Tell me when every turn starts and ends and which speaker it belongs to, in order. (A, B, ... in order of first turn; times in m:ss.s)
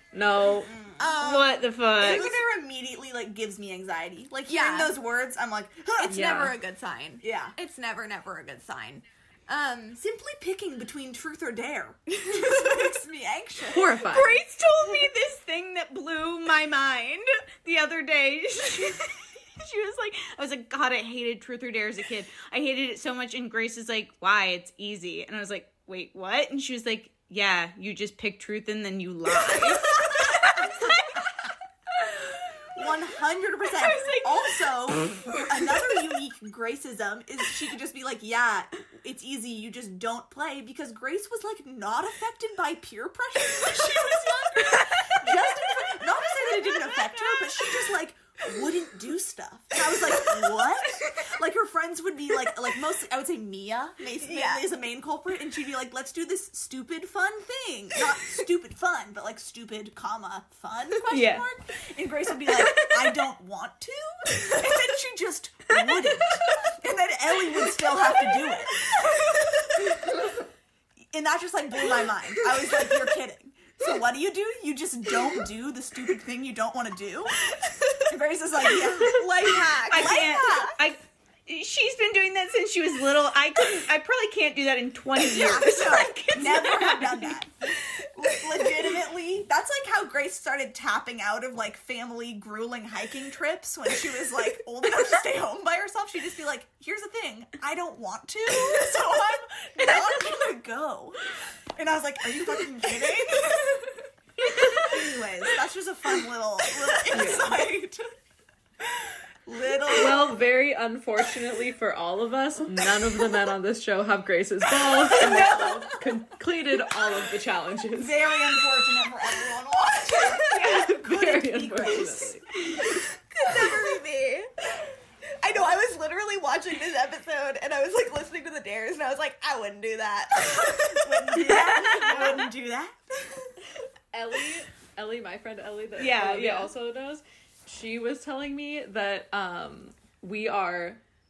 0:00.1-0:00.7 A
0:00.6-0:01.1 B
0:01.0-0:01.6 C
0:01.2-0:02.3 D
0:02.0-0:06.4 B
0:04.5-0:04.9 C
0:06.0-0:10.0 C
0:06.1-0:06.6 A
0:07.2-0:07.5 B
0:10.0-0:14.0 B
0:13.7-0:14.4 A
0:14.0-0:31.3 D
0:32.0-0:32.4 D
0:32.7-1:09.0 B
0:33.6-0:35.6 D
0:46.3-0:47.2 C
0:54.2-0:54.6 C
1:01.1-1:01.4 D
1:07.8-1:09.6 C
1:09.9-1:10.2 B
1:11.1-1:17.3 B
1:18.1-1:20.8 B
1:18.9-1:20.5 C
1:19.9-1:27.4 D
1:25.2-1:41.2 B
1:41.8-1:43.7 B
1:44.5-1:44.9 A
1:44.7-1:48.0 B
1:47.1-1:47.6 A
1:48.8-1:50.4 B
1:49.9-1:58.2 A
1:54.8-1:55.6 B
1:55.2-1:55.9 D
1:57.9-2:03.7 B
2:00.6-2:00.9 D
2:00.6-2:02.5 A
2:03.3-2:04.5 C
2:05.4-2:12.3 C
2:11.0-2:13.5 B
2:12.1-2:12.4 A
2:14.1-2:21.0 A
2:16.0-2:16.7 D